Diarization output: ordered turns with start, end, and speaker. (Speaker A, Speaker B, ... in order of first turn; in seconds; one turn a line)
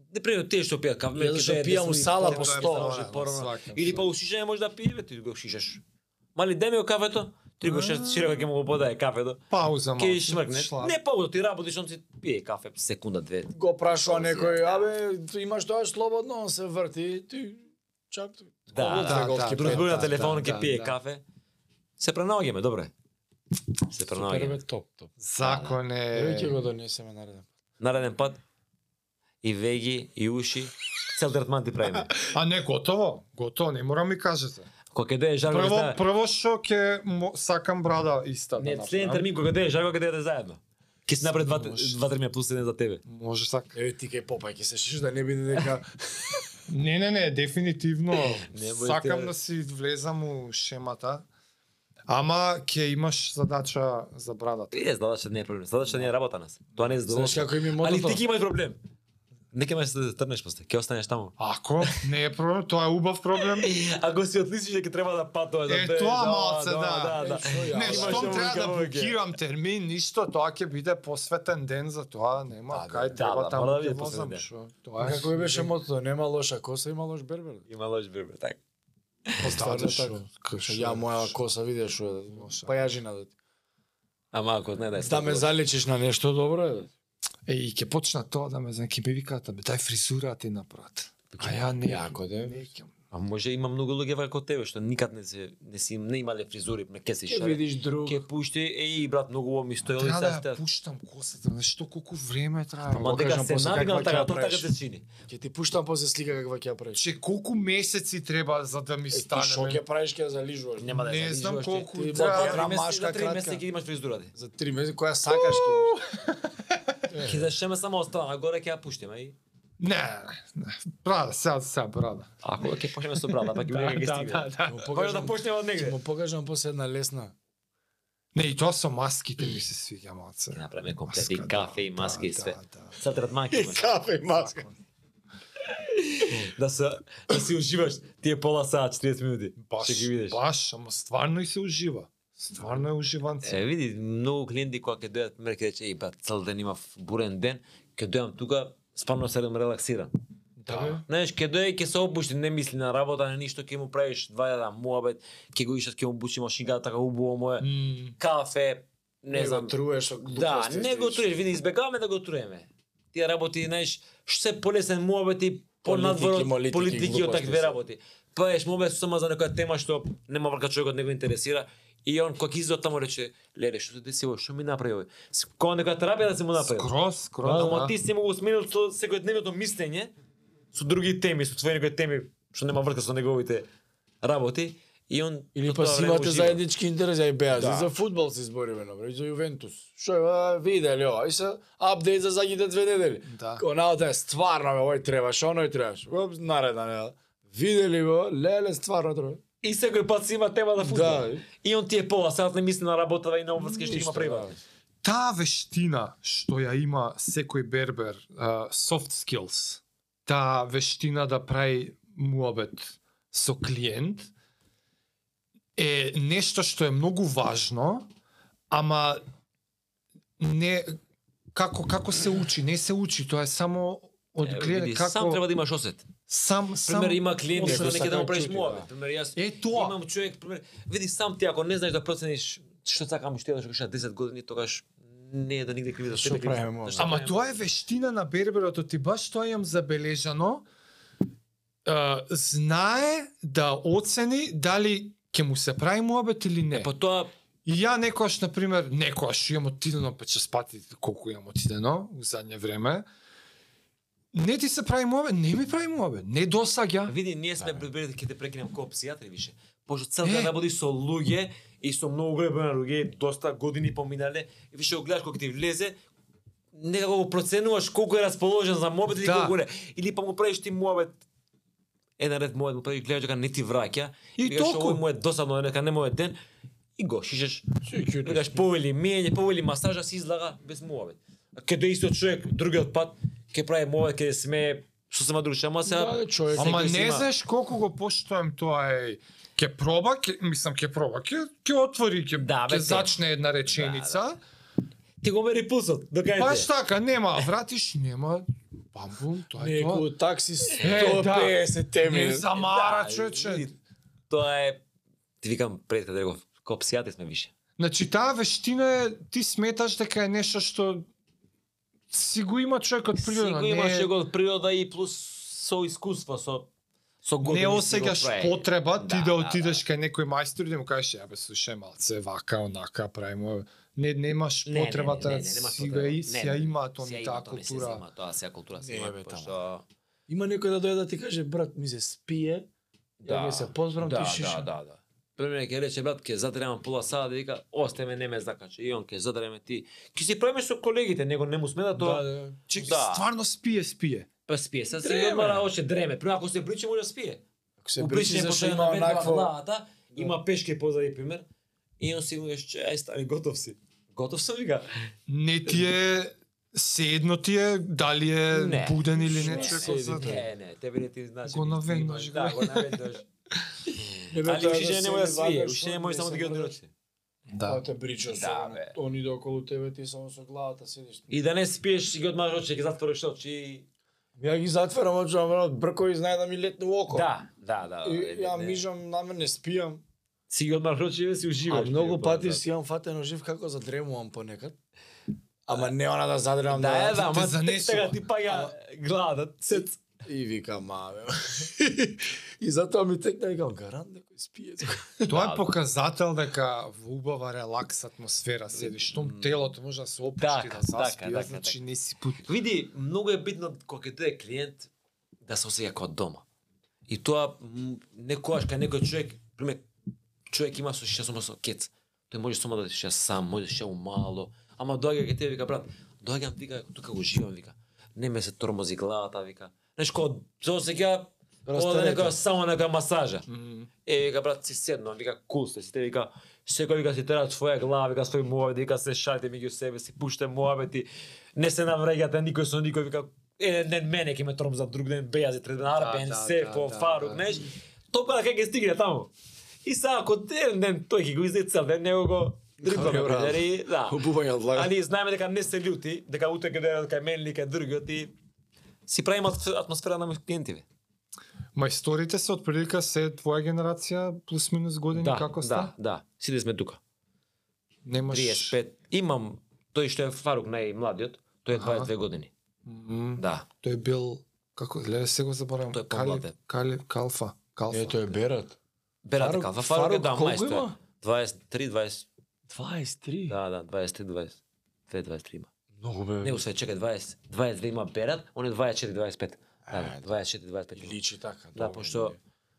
Speaker A: 0.1-5.8
Speaker B: 1.1-3.0
Speaker C: 2.2-4.1
Speaker A: 6.3-9.4
Speaker C: 7.6-8.5
Speaker C: 9.5-10.9
Speaker A: 10.0-14.9
Speaker B: 13.5-20.9
Speaker A: 18.7-21.2
Speaker C: 18.8-20.9
Speaker A: 22.0-22.9
Speaker A: 23.9-24.6
Speaker B: 24.1-25.1
Speaker C: 25.2-26.6
Speaker A: 25.4-25.8
Speaker B: 26.1-27.4
Speaker A: 27.8-28.4
Speaker A: 29.4-32.2
Speaker C: 32.3-34.7
Speaker A: 34.9-36.0
Speaker C: 35.5-39.3
Speaker A: 38.6-43.0
Speaker C: 41.2-42.0
Speaker C: 43.0-43.8
Speaker B: 43.7-46.4
Speaker C: 46.7-51.2
Speaker A: 48.4-49.3
Speaker C: 52.1-54.7
Speaker A: 54.7-58.8
Speaker B: 57.1-58.2
Speaker A: 59.5-61.9
Speaker C: 61.4-63.9
Speaker A: 63.4-69.2
Speaker C: 65.7-75.7
Speaker B: 67.1-68.6
Speaker A: 72.7-74.4
Speaker B: 75.0-77.7
Speaker A: 77.7-78.6
Speaker C: 79.4-81.4
Speaker B: 79.4-83.3
Speaker C: 82.3-82.8
Speaker A: 84.3-85.5
Speaker B: 85.0-86.9
Speaker C: 87.5-92.9
Speaker A: 91.3-91.7
Speaker B: 91.8-92.7
Speaker A: 93.1-100.6
Speaker B: 97.2-98.2
Speaker C: 99.8-103.2
Speaker B: 102.9-104.7
Speaker A: 102.9-105.0
Speaker B: 105.3-107.0
Speaker C: 107.0-109.8
Speaker B: 109.1-111.0
Speaker A: 110.8-114.3
Speaker C: 110.9-112.8
Speaker B: 111.9-113.6
Speaker B: 114.3-115.9
Speaker C: 115.3-117.0
Speaker B: 117.1-117.5
Speaker A: 117.2-119.3
Speaker C: 119.8-122.3
Speaker A: 122.4-126.0
Speaker C: 123.2-124.9
Speaker B: 124.7-127.3
Speaker C: 128.3-133.0
Speaker A: 130.5-134.0
Speaker B: 133.5-134.7
Speaker C: 134.3-134.8
Speaker A: 135.7-140.4
Speaker C: 139.6-143.6
Speaker A: 143.4-150.1
Speaker C: 150.6-151.0
Speaker B: 150.7-151.0
Speaker A: 151.0-159.7
Speaker C: 157.6-158.2
Speaker B: 159.3-161.3
Speaker A: 160.2-176.9
Speaker B: 165.8-167.8
Speaker C: 176.6-177.9
Speaker A: 177.4-180.1
Speaker A: 180.7-183.7
Speaker A: 184.2-186.6
Speaker B: 185.5-199.4
Speaker A: 187.5-187.9
Speaker C: 193.3-193.6
Speaker A: 199.6-204.5
Speaker B: 200.8-201.4
Speaker C: 203.6-204.0
Speaker B: 203.9-204.6
Speaker C: 205.0-214.3
Speaker C: 215.8-218.1
Speaker C: 218.7-219.2
Speaker C: 220.4-221.0
Speaker C: 221.5-225.4
Speaker A: 224.4-226.0
Speaker C: 226.3-228.0
Speaker A: 226.8-237.6
Speaker B: 227.5-228.9
Speaker C: 229.3-229.9
Speaker B: 236.1-237.1
Speaker C: 237.0-240.6
Speaker C: 241.8-246.9
Speaker A: 246.7-247.3
Speaker C: 247.7-253.0
Speaker C: 254.3-257.1
Speaker A: 257.1-265.9
Speaker C: 260.2-260.5
Speaker A: 266.7-271.1
Speaker C: 269.2-269.6
Speaker A: 272.2-276.4
Speaker C: 274.4-275.0
Speaker A: 277.0-277.6
Speaker B: 277.8-278.6
Speaker A: 278.2-287.3
Speaker B: 285.8-286.8
Speaker C: 286.5-294.4
Speaker A: 292.4-294.2
Speaker A: 295.2-296.7
Speaker C: 296.4-300.1
Speaker B: 299.6-302.5
Speaker A: 300.6-301.2
Speaker C: 300.8-303.7
Speaker A: 302.5-303.8
Speaker A: 304.3-304.8
Speaker A: 305.4-307.5
Speaker C: 307.8-311.1
Speaker C: 312.1-314.1
Speaker A: 313.2-316.7
Speaker A: 317.2-319.8
Speaker C: 317.4-328.0
Speaker A: 324.6-329.8
Speaker B: 328.8-329.6
Speaker B: 330.3-332.7
Speaker A: 333.2-343.2
Speaker B: 333.2-334.7
Speaker B: 341.9-342.6
Speaker C: 342.7-344.3
Speaker A: 344.5-347.4
Speaker B: 345.0-345.7
Speaker B: 347.8-349.5
Speaker A: 348.0-351.4
Speaker A: 352.0-354.9
Speaker C: 355.3-360.4
Speaker A: 358.5-363.2
Speaker B: 359.2-360.5
Speaker C: 361.4-363.0
Speaker A: 364.0-366.9
Speaker B: 364.3-366.8
Speaker C: 367.5-367.8
Speaker B: 367.6-371.3
Speaker A: 368.3-368.9
Speaker A: 371.3-373.9
Speaker B: 374.4-377.3
Speaker A: 377.1-378.8
Speaker B: 378.0-380.0
Speaker A: 380.5-382.6
Speaker B: 381.7-384.8
Speaker B: 385.6-387.3
Speaker A: 386.7-390.0
Speaker C: 387.1-388.2
Speaker B: 388.5-388.7
Speaker B: 389.7-395.1
Speaker C: 395.2-402.5
Speaker A: 395.3-395.8
Speaker A: 398.7-399.7
Speaker A: 400.4-401.8
Speaker A: 402.4-404.9
Speaker A: 405.4-406.4
Speaker A: 407.1-409.8
Speaker A: 410.5-423.4
Speaker B: 421.6-422.4
Speaker C: 423.5-423.9
Speaker A: 424.1-439.3
Speaker C: 435.9-437.6
Speaker A: 439.8-444.2
Speaker B: 442.8-444.9
Speaker A: 444.7-448.3
Speaker A: 449.1-450.8
Speaker C: 451.7-455.9
Speaker A: 455.1-457.0
Speaker C: 458.1-458.8
Speaker A: 458.3-462.5
Speaker C: 461.7-462.1
Speaker C: 462.9-468.2
Speaker A: 463.4-463.6
Speaker A: 465.9-466.5
Speaker B: 467.9-468.8
Speaker A: 469.2-472.2
Speaker B: 469.4-470.9
Speaker B: 472.7-473.6
Speaker A: 473.5-474.6
Speaker A: 475.1-475.7
Speaker B: 476.0-476.6
Speaker A: 476.4-481.2
Speaker B: 479.9-480.3
Speaker B: 480.9-482.4
Speaker A: 481.8-482.4